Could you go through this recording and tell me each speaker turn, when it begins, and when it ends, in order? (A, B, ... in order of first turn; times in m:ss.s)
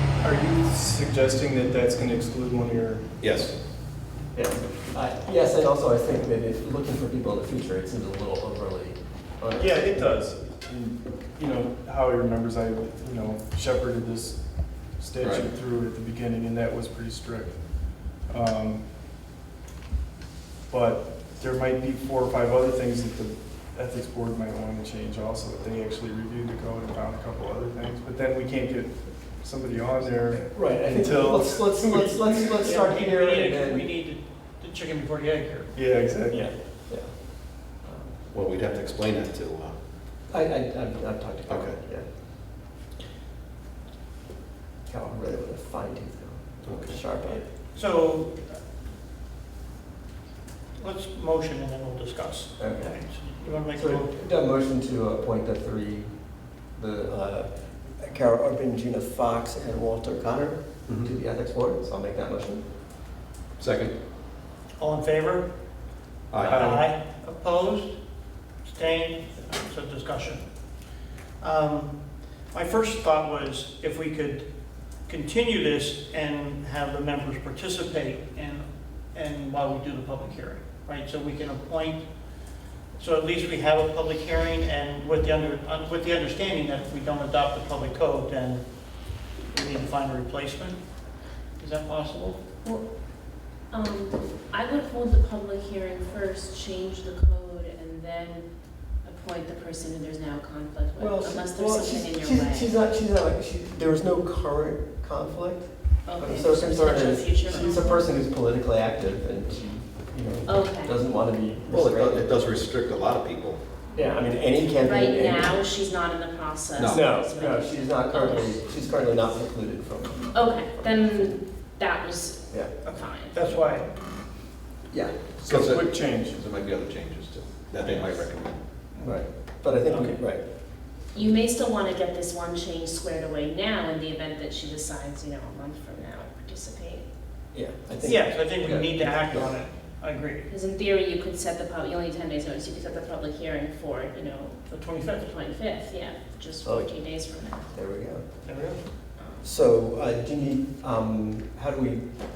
0:00.2-0:03.1 A
0:03.2-0:03.5 B
0:04.3-0:10.0 C
0:09.6-0:18.9 A
0:15.2-0:15.5 B
0:20.7-0:32.2 A
0:30.4-0:33.9 C
0:32.6-0:35.7 D
0:35.7-0:36.5 A
0:36.3-0:38.2 C
0:38.3-0:39.7 B
0:40.3-0:42.0 C
0:41.5-0:41.8 B
0:44.9-0:47.4 C
0:46.6-0:47.0 B
0:47.2-0:48.6 D
0:50.8-0:54.1 D
0:52.6-0:52.9 C
0:53.7-0:56.1 C
0:56.7-1:02.6 C
1:03.6-1:03.9 B
1:04.8-1:05.5 D
1:06.3-1:06.8 B
1:06.4-1:07.9 D
1:06.4-1:06.8 A
1:08.6-1:10.4 D
1:11.4-1:11.9 D
1:12.5-1:14.5 D
1:15.1-1:22.0 D
1:22.9-1:28.6 D
1:29.5-1:30.8 D
1:31.6-1:32.4 D
1:33.7-1:38.4 E
1:39.0-1:42.7 E
1:41.0-1:52.3 C
1:46.0-1:48.1 E
1:47.5-1:47.8 D
1:50.5-1:51.0 E
1:51.7-1:53.6 B
1:53.9-1:55.5 C
1:54.8-1:58.6 E
1:56.8-1:57.1 B
1:56.8-2:00.9 C
2:00.3-2:03.4 E
2:03.3-2:03.9 D
2:04.9-2:05.2 C
2:05.4-2:06.4 A
2:05.5-2:08.6 B
2:07.8-2:08.2 D
2:08.9-2:09.2 D
2:09.0-2:10.4 C
2:09.9-2:10.2 D
2:11.1-2:17.0 E
2:17.5-2:19.6 C
2:18.0-2:20.5 D
2:20.5-2:27.7 E
2:24.7-2:25.3 D
2:26.6-2:26.9 C
2:27.7-2:28.2 C
2:28.4-2:28.8 D
2:29.2-2:29.4 E
2:29.4-2:32.0 C